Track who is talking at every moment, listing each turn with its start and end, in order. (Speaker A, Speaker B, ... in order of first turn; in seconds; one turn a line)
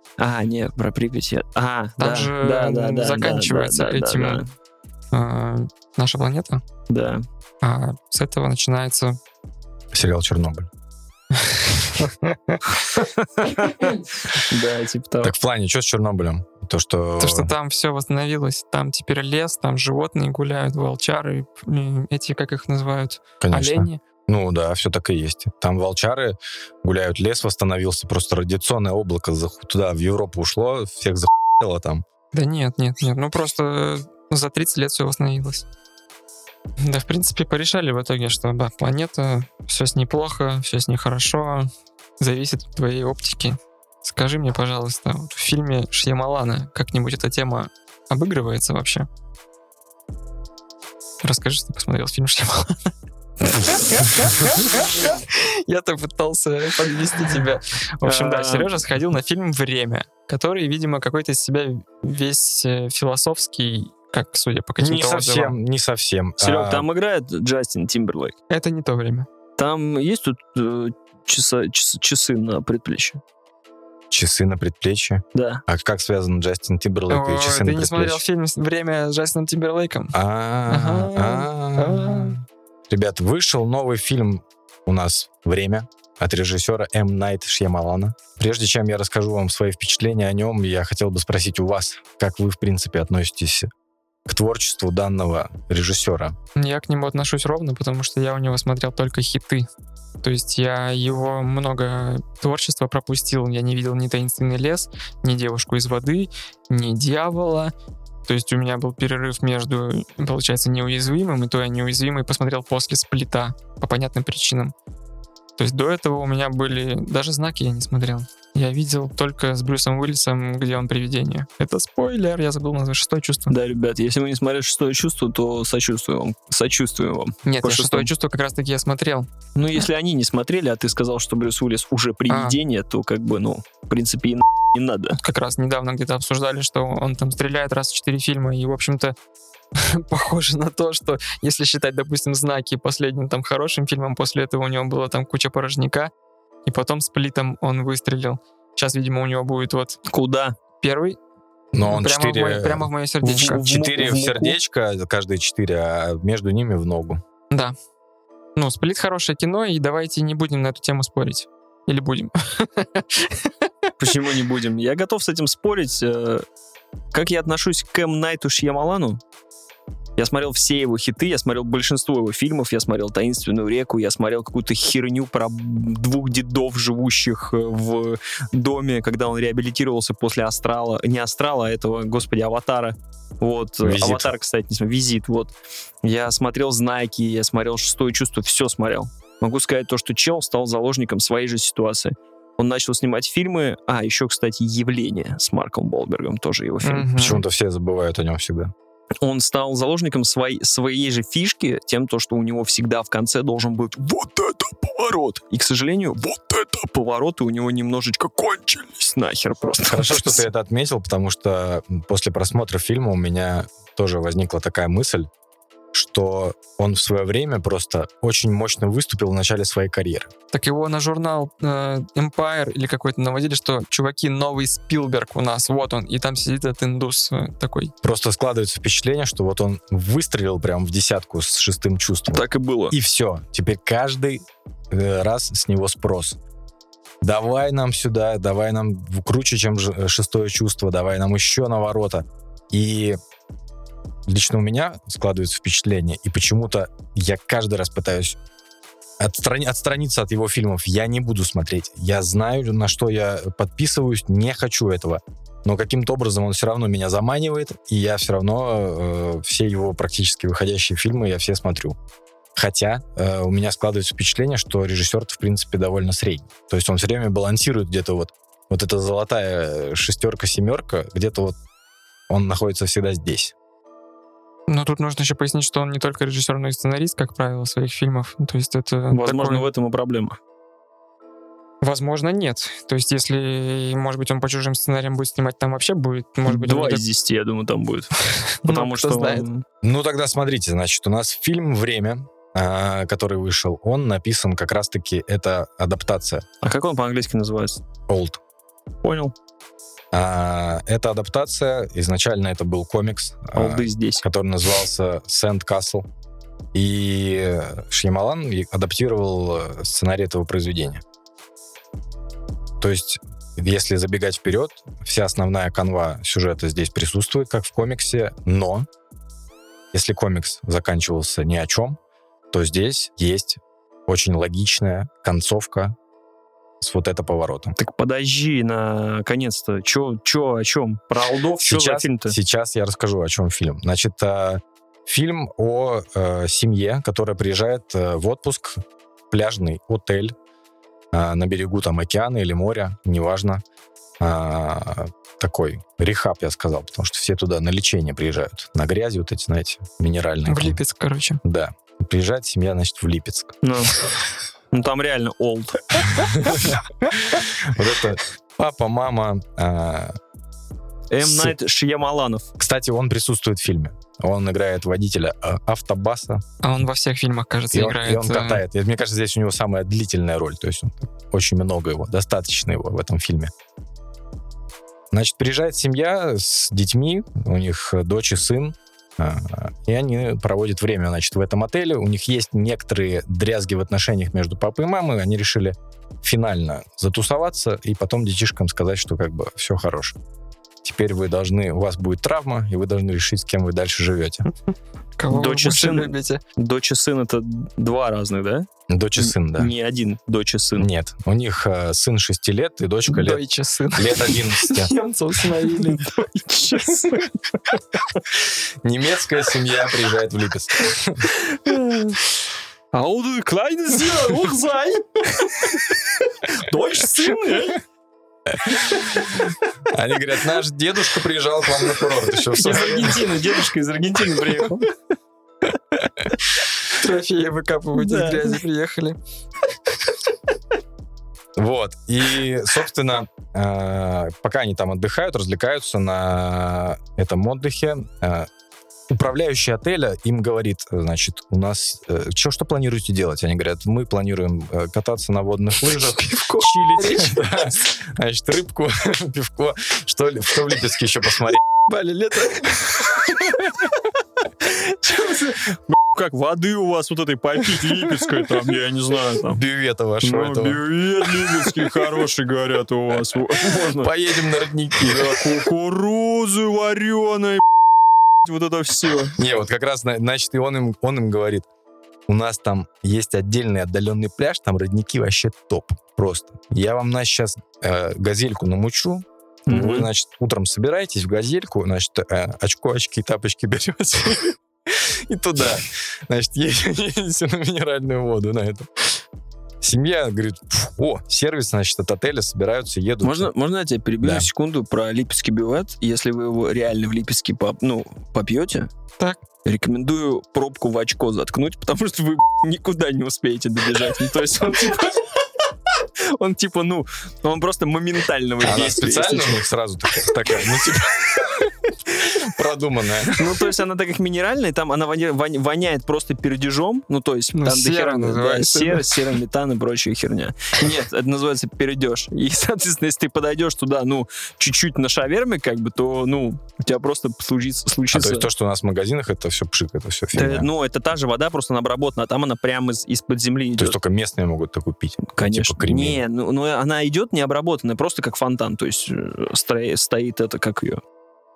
Speaker A: 0.2-4.5
Speaker B: 2.0-4.4
Speaker B: 5.1-6.6
Speaker A: 6.9-7.2
Speaker B: 7.6-9.2
Speaker C: 9.9-10.7
Speaker A: 13.2-15.3
Speaker C: 15.2-17.5
Speaker B: 17.2-24.0
Speaker C: 23.4-32.0
Speaker B: 32.3-35.6
Speaker B: 36.8-49.1
Speaker B: 51.2-52.9
Speaker B: 53.4-65.6
Speaker A: 58.0-58.7
Speaker C: 64.8-66.8
Speaker A: 66.4-68.3
Speaker B: 68.5-69.3
Speaker A: 69.6-73.2
Speaker C: 74.1-78.2
Speaker A: 75.3-75.6
Speaker B: 77.1-80.1
Speaker C: 80.1-93.7
Speaker B: 80.7-82.4
Speaker C: 94.3-96.3
Speaker B: 96.5-99.7
Speaker B: 100.2-107.7
Speaker B: 108.2-114.7
Speaker B: 115.6-123.5
Speaker A: 123.5-128.1
Speaker B: 127.5-129.3
Speaker A: 129.6-135.2
Speaker B: 132.3-132.6
Speaker B: 135.2-139.2
Speaker B: 139.7-146.1
Speaker B: 146.7-150.0
Speaker A: 150.1-150.6
Speaker B: 150.8-151.2
Speaker C: 151.7-152.8
Speaker B: 151.8-153.7
Speaker A: 153.2-154.6
Speaker C: 153.6-157.2
Speaker B: 158.6-163.5
Speaker A: 164.0-166.4
Speaker A: 167.1-169.2
Speaker A: 170.2-197.4
Speaker C: 183.8-184.3
Speaker B: 196.8-197.4
Speaker C: 197.2-198.7
Speaker A: 199.2-210.4
Speaker C: 209.8-215.3
Speaker C: 215.9-220.3
Speaker B: 220.5-227.9
Speaker C: 228.0-236.4
Speaker A: 232.3-232.9
Speaker C: 237.2-243.2
Speaker C: 244.2-248.4
Speaker C: 249.2-262.0
Speaker C: 262.6-271.6
Speaker C: 272.3-273.5
Speaker B: 274.7-279.7
Speaker A: 279.1-280.4
Speaker B: 281.8-287.0
Speaker A: 286.4-288.1
Speaker B: 288.3-289.4
Speaker A: 288.6-289.6
Speaker C: 289.8-296.4
Speaker A: 296.6-297.8
Speaker C: 298.1-298.4
Speaker A: 299.0-299.3
Speaker C: 300.1-306.0
Speaker A: 303.5-304.2
Speaker C: 306.7-311.0
Speaker C: 312.8-318.9
Speaker C: 319.9-322.0
Speaker C: 322.5-325.9
Speaker C: 326.8-327.8
Speaker A: 327.8-332.3
Speaker C: 331.6-340.4
Speaker C: 341.1-343.6
Speaker C: 344.2-350.8
Speaker B: 350.5-351.4
Speaker C: 351.4-353.6
Speaker A: 353.6-354.0
Speaker A: 354.7-356.0
Speaker C: 356.1-360.1
Speaker A: 361.1-362.5
Speaker C: 361.2-361.5
Speaker C: 362.6-366.4
Speaker B: 366.6-368.6
Speaker C: 367.7-373.5
Speaker C: 375.1-390.1
Speaker C: 390.8-394.5
Speaker B: 395.2-396.4
Speaker A: 395.3-400.9
Speaker C: 398.9-399.7
Speaker C: 400.8-403.4
Speaker B: 403.1-406.3
Speaker C: 403.9-404.9
Speaker A: 405.8-408.0
Speaker C: 408.4-411.3
Speaker A: 411.3-412.2
Speaker A: 412.9-417.8
Speaker C: 418.5-419.1
Speaker C: 419.9-423.4
Speaker A: 422.5-424.9
Speaker C: 425.7-426.3
Speaker B: 426.8-429.2
Speaker A: 428.0-428.6
Speaker C: 431.6-438.5
Speaker C: 439.1-451.6
Speaker B: 445.9-447.8
Speaker B: 451.9-453.5
Speaker A: 454.6-459.6
Speaker C: 459.4-461.9
Speaker A: 460.2-464.1
Speaker C: 463.9-465.6
Speaker A: 465.0-467.6
Speaker A: 468.4-469.4
Speaker C: 469.4-471.7
Speaker C: 472.3-488.9
Speaker A: 479.7-480.1
Speaker C: 489.8-493.5
Speaker A: 493.2-498.9
Speaker C: 494.2-494.5
Speaker A: 499.6-505.4
Speaker A: 505.9-509.6
Speaker C: 508.6-513.6
Speaker A: 513.3-528.5
Speaker B: 517.5-519.3
Speaker C: 528.1-530.7
Speaker A: 530.3-534.0
Speaker C: 533.8-536.2
Speaker A: 535.3-541.0